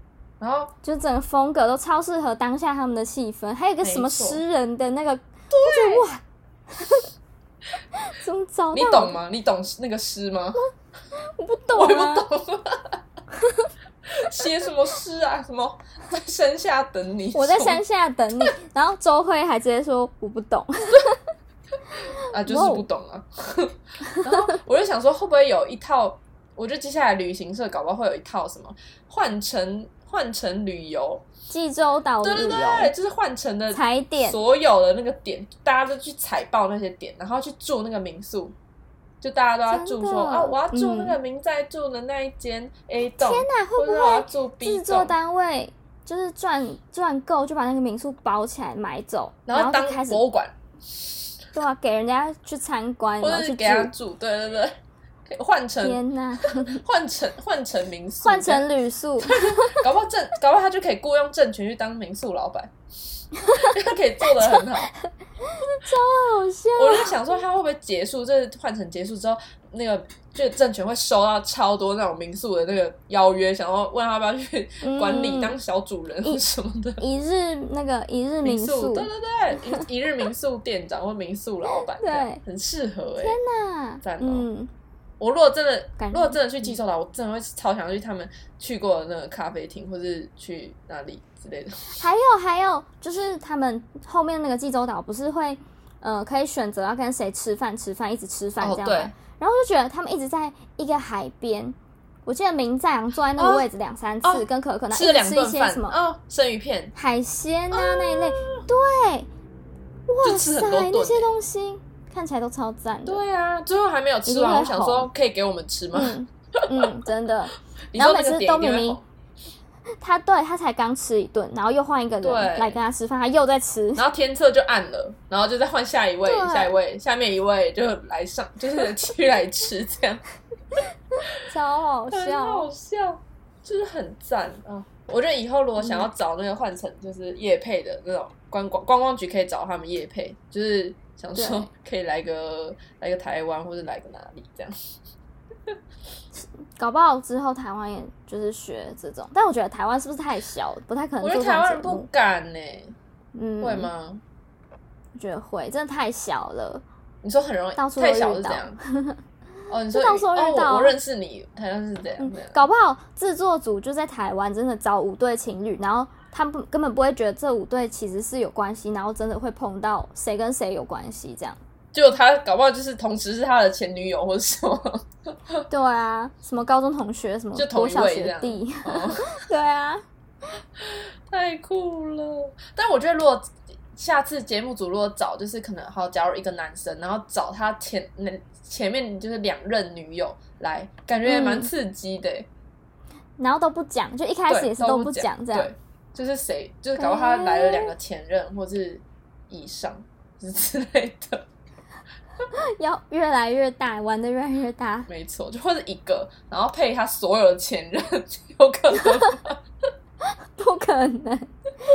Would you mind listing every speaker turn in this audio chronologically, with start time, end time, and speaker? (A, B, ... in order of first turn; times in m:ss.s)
0:00.4-0:00.7 A
0:00.8-0:06.2 B
0:03.8-0:04.4 A
0:05.5-0:06.1 A
0:06.8-0:07.0 B
0:08.0-0:09.2 B
0:08.7-0:10.6 A
0:10.6-0:12.3 B
0:11.7-0:13.0 A
0:13.4-0:13.7 B
0:14.1-0:17.8 A
0:17.3-0:21.2 B
0:22.3-0:31.2 A
0:22.4-0:22.9 B
0:31.5-0:32.9 B
0:32.2-0:38.6 A
0:33.7-0:34.4 B
0:39.2-0:45.1 A
0:39.7-0:41.2 B
0:43.1-0:50.2 B
0:49.5-0:50.6 A
0:51.5-0:53.9 B
0:53.2-0:54.8 A
0:55.3-0:56.0 A
0:55.8-0:56.8 B
0:56.6-0:58.6 A
0:58.2-0:59.8 B
0:59.2-1:02.7 A
1:03.5-1:04.9 A
1:04.3-1:04.7 B
1:05.6-1:07.2 B
1:06.8-1:17.0 A
1:14.8-1:15.6 B
1:17.0-1:19.1 B
1:18.4-1:23.4 A
1:21.7-1:22.4 B
1:23.2-1:24.7 B
1:24.0-1:24.5 A
1:25.2-1:32.0 A
1:26.0-1:26.8 B
1:32.0-1:46.0 B
1:38.6-1:39.2 A
1:43.4-1:43.7 A
1:44.2-1:46.9 A
1:47.0-1:49.3 B
1:47.7-1:48.6 A
1:50.1-1:53.2 B
1:50.2-1:51.3 A
1:53.1-1:56.2 A
1:54.3-1:55.1 B
1:55.9-1:59.0 B
1:57.9-1:59.0 A
2:00.0-2:04.0 B
2:02.2-2:02.8 A
2:04.0-2:10.2 A
2:06.2-2:06.8 B
2:11.4-2:12.7 B
2:12.1-2:24.8 A
2:15.8-2:16.1 B
2:21.4-2:21.7 B
2:26.8-2:32.1 B
2:31.2-2:33.0 A
2:33.4-2:33.9 B
2:33.6-2:34.2 A
2:35.2-2:36.8 B
2:37.2-2:38.8 A
2:37.8-2:39.2 B
2:39.7-2:42.6 A
2:39.9-2:41.0 B
2:42.2-2:51.6 B
2:51.9-2:55.0 A
2:55.7-3:00.0 B
2:57.6-2:59.4 A
3:00.8-3:12.5 A
3:11.2-3:11.7 B
3:13.4-3:15.7 B
3:14.5-3:21.4 A
3:17.0-3:17.9 B
3:22.8-3:25.1 B
3:25.1-3:29.6 A
3:30.6-3:31.5 B